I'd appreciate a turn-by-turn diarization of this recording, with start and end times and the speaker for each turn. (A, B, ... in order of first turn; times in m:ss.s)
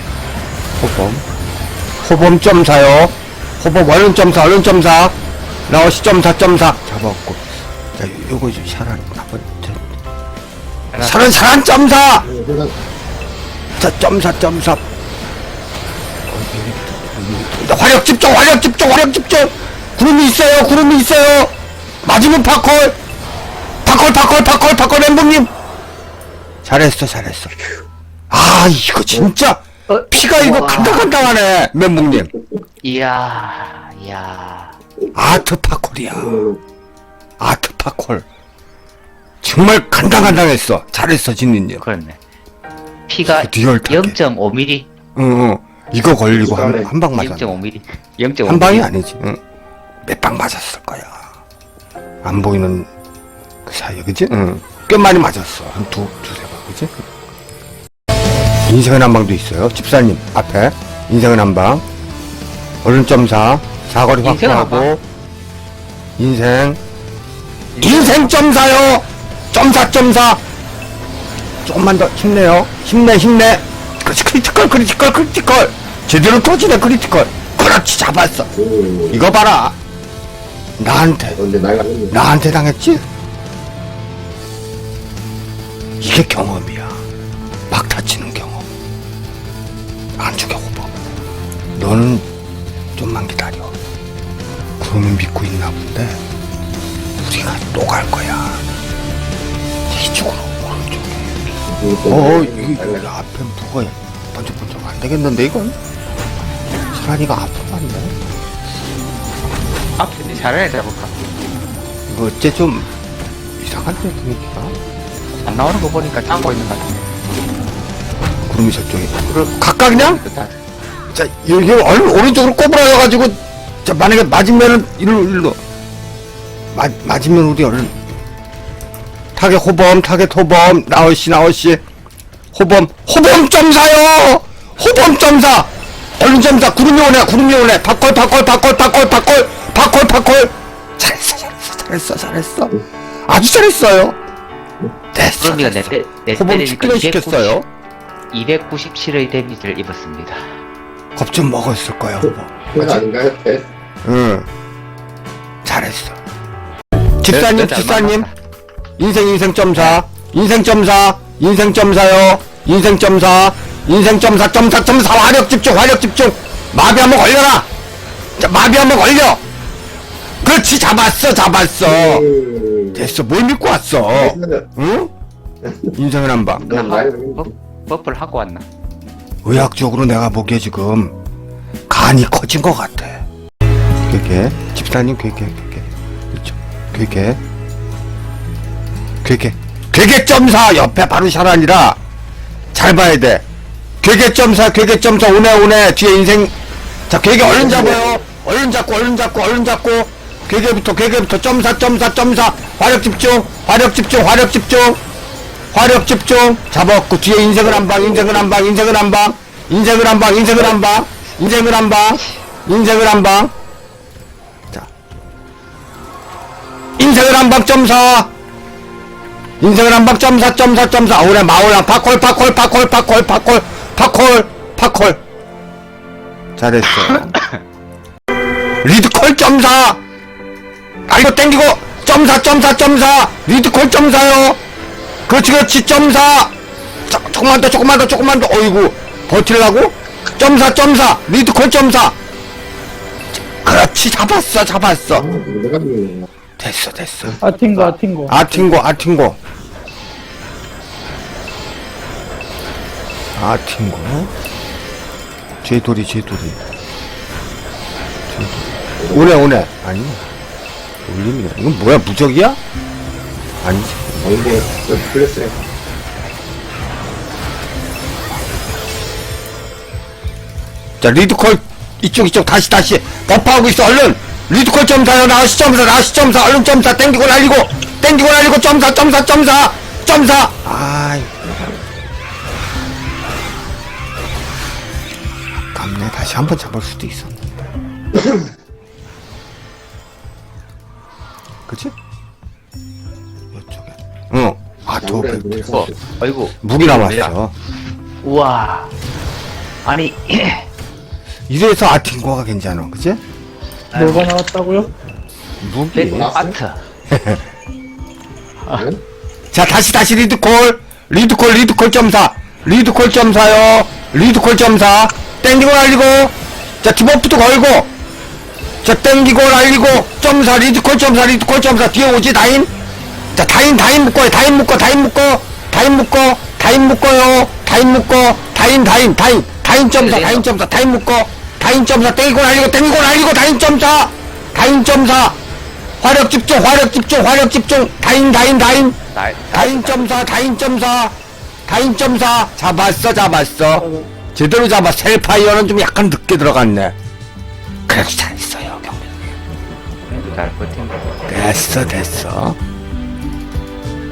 0:00.8-0:01.2 A
0:02.0-0:05.2 A
0:05.7-0:07.4 A
0:08.0-0:09.9 A
0:10.9-0:11.4 B
0:11.0-0:12.3 A
0:12.3-0:12.7 C
0:13.8-0:14.8 A
0:16.3-0:21.5 A
0:22.0-0:23.0 A
0:23.8-0:25.5 A
0:26.6-0:27.5 A
0:28.3-0:32.3 A
0:29.9-0:31.2 B
0:32.8-0:34.8 B
0:35.2-0:36.4 A
0:36.1-0:36.6 C
0:37.4-0:38.3 A
0:39.4-0:41.8 A
0:41.8-0:42.2 B
0:43.1-0:44.9 B
0:43.2-0:44.2 A
0:45.2-0:47.6 A
0:46.3-0:46.9 C
0:47.1-0:48.9 B
0:48.4-0:49.4 A
0:50.0-0:51.3 A
0:52.2-0:52.9 A
0:53.7-0:56.9 A
0:58.7-1:01.8 A
1:02.8-1:05.0 A
1:04.2-1:04.9 B
1:06.2-1:06.8 A
1:07.8-1:08.3 B
1:07.8-1:10.4 A
1:11.6-1:18.5 A
1:18.6-1:19.2 C
1:19.1-1:19.8 A
1:20.8-1:21.4 A
1:21.4-1:22.2 C
1:22.1-1:23.0 A
1:26.0-1:27.0 A
1:27.7-1:28.6 A
1:30.2-1:30.9 A
1:31.8-1:32.3 A
1:33.0-1:33.7 A
1:34.8-1:36.2 A
1:37.2-1:38.6 A
1:39.9-1:41.3 A
1:41.7-1:43.1 C
1:42.1-1:45.8 A
1:46.9-1:48.2 A
1:50.0-1:51.5 B
1:52.1-1:52.9 A
1:53.6-1:54.8 A
1:55.4-1:56.9 B
1:58.5-2:00.2 A
1:59.3-2:00.5 B
2:01.1-2:05.6 A
2:06.7-2:08.0 A
2:09.4-2:11.8 A
2:12.5-2:24.2 A
2:25.1-2:27.7 A
2:25.4-2:27.6 B
2:28.3-2:30.4 B
2:31.2-2:33.0 A
2:32.7-2:33.7 C
2:34.0-2:34.5 A
2:35.6-2:36.2 A
2:37.2-2:38.3 A
2:37.3-2:38.3 B
2:39.0-2:47.7 A
2:39.7-2:40.0 B
2:48.4-2:49.4 A
2:50.4-2:52.2 A
2:51.8-2:53.1 C
2:52.9-2:55.1 A
2:54.1-2:54.7 C
2:55.6-2:55.9 C
2:55.9-2:56.7 A
2:56.6-2:58.6 B
2:56.6-2:57.5 C
2:59.4-3:01.2 A
3:01.9-3:03.2 A
3:04.1-3:07.4 A
3:09.2-3:12.0 A
3:12.7-3:13.4 A
3:14.0-3:16.5 A
3:17.1-3:25.0 A
3:17.4-3:18.2 C
3:25.7-3:33.5 A
3:27.6-3:28.6 C
3:37.0-3:38.3 A
3:39.6-3:45.2 A
3:46.6-3:47.4 A
3:47.1-3:47.5 B
3:48.8-3:50.0 A
3:51.1-3:54.6 A
3:55.3-3:56.5 A
3:57.1-4:02.2 A
4:03.4-4:05.3 A
4:05.1-4:06.3 C
4:06.6-4:07.4 A
4:07.4-4:08.4 D
4:07.6-4:08.7 B
4:08.3-4:09.4 A
4:13.4-4:14.3 A
4:15.6-4:16.6 A
4:18.3-4:20.2 A
4:19.0-4:19.3 C
4:21.0-4:22.6 A
4:23.6-4:24.2 A
4:24.2-4:25.6 C
4:31.0-4:41.4 A
4:45.6-4:47.4 A
4:51.7-4:51.9 A
4:53.5-4:55.9 A
4:55.0-4:56.0 C
4:55.7-4:57.4 B
4:56.6-4:57.6 A
4:58.2-4:58.9 B
4:59.8-5:00.7 B
5:01.5-5:03.2 A
5:03.9-5:04.3 B
5:03.9-5:04.9 D
5:05.6-5:06.4 A
5:05.9-5:06.8 B
5:06.2-5:06.6 C
5:07.1-5:07.4 A
5:08.8-5:09.0 C
5:09.5-5:17.9 A
5:18.8-5:22.7 A
5:23.3-5:35.4 A
5:29.9-5:30.5 B
5:36.0-5:39.0 A
5:39.1-5:40.4 B
5:39.5-5:41.2 A
5:41.7-5:47.0 A
5:47.9-5:49.1 A
5:50.1-5:51.9 B
5:51.3-5:52.6 A